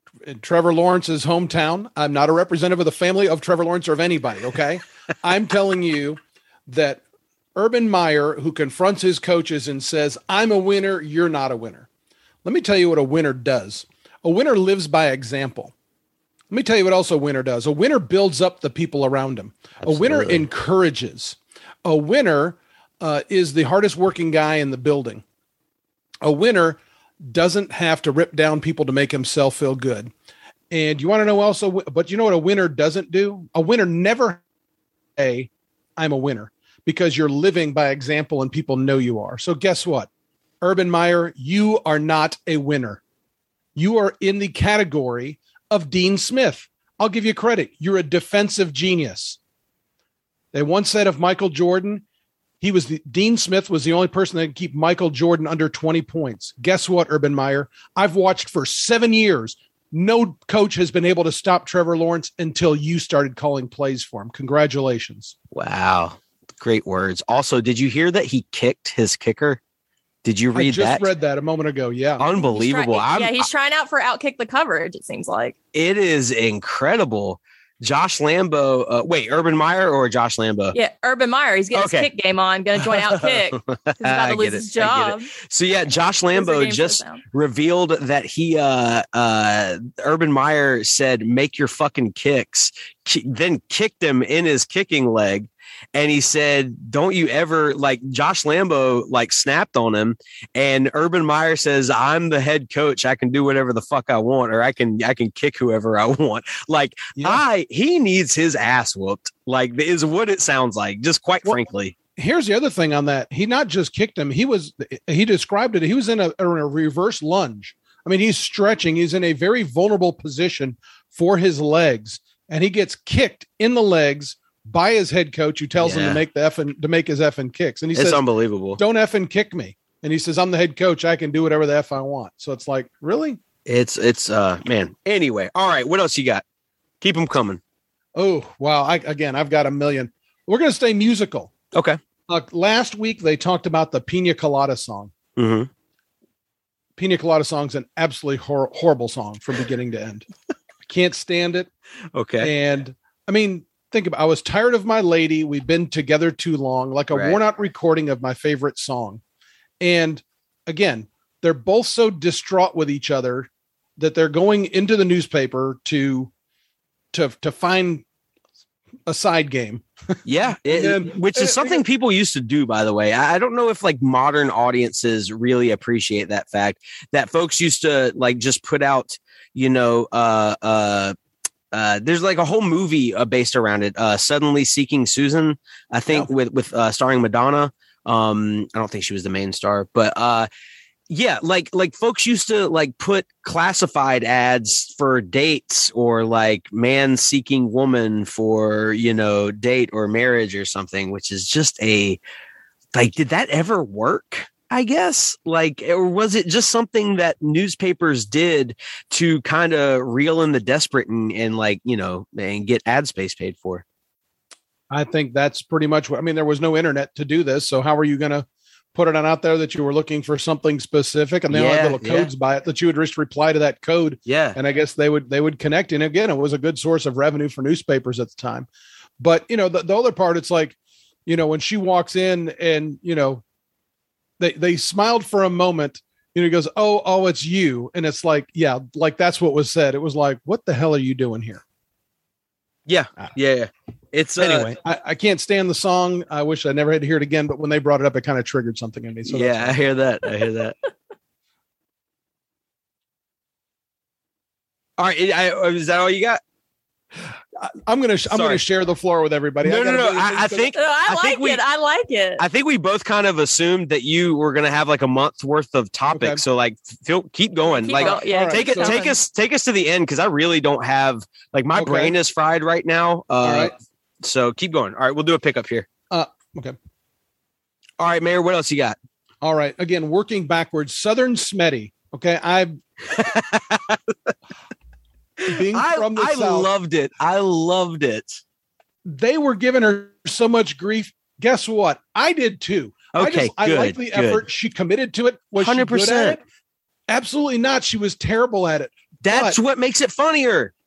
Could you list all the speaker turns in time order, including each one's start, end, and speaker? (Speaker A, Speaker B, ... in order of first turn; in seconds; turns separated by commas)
Speaker A: 0.2-7.0, Speaker A: 7.5-11.9, Speaker A: 12.4-15.7, Speaker A: 16.5-25.2, Speaker B: 19.8-20.4, Speaker A: 26.2-30.1, Speaker A: 30.7-34.4, Speaker A: 35.1-40.1, Speaker A: 40.6-43.0, Speaker A: 43.8-49.4, Speaker A: 50.5-52.0, Speaker A: 52.6-65.3, Speaker B: 65.5-69.6, Speaker B: 70.2-71.1, Speaker A: 70.5-72.2, Speaker B: 72.2-73.5, Speaker C: 72.5-75.5, Speaker B: 75.7-80.8, Speaker C: 80.7-85.3, Speaker B: 81.7-82.1, Speaker B: 82.8-111.9, Speaker C: 86.3-87.2, Speaker A: 107.2-107.4, Speaker A: 112.2-128.2, Speaker B: 125.8-126.2, Speaker B: 127.9-128.8, Speaker A: 128.8-133.4, Speaker B: 133.7-136.4, Speaker B: 137.0-137.6, Speaker A: 138.2-141.5, Speaker B: 141.7-142.0, Speaker A: 142.3-145.1, Speaker B: 145.4-145.7, Speaker A: 147.0-150.2, Speaker A: 150.9-151.7, Speaker B: 152.1-152.5, Speaker A: 152.4-159.2, Speaker B: 157.1-157.4, Speaker A: 159.8-166.3, Speaker A: 167.1-168.0, Speaker A: 169.1-169.9, Speaker B: 170.2-181.2, Speaker A: 170.7-171.8, Speaker B: 181.7-190.5, Speaker B: 191.1-202.2, Speaker B: 202.9-213.8, Speaker A: 214.9-228.7, Speaker B: 221.5-222.3, Speaker B: 224.2-224.6, Speaker A: 229.2-233.4, Speaker A: 234.4-241.6, Speaker B: 242.9-244.7, Speaker A: 244.4-249.8, Speaker B: 249.3-250.8, Speaker B: 255.0-256.4, Speaker A: 257.6-260.7, Speaker B: 258.3-258.6, Speaker B: 259.6-261.6, Speaker C: 260.7-262.4, Speaker B: 262.4-275.9, Speaker A: 266.1-266.4, Speaker C: 267.8-269.2, Speaker A: 267.9-268.9, Speaker A: 271.7-272.1, Speaker A: 273.4-273.7, Speaker A: 276.1-276.8, Speaker B: 278.0-278.9, Speaker A: 279.4-282.8, Speaker B: 283.1-284.3, Speaker B: 285.4-288.4, Speaker A: 285.5-286.7, Speaker A: 289.0-296.4, Speaker B: 293.1-294.4, Speaker B: 295.6-296.4, Speaker A: 297.1-299.6, Speaker B: 299.2-300.7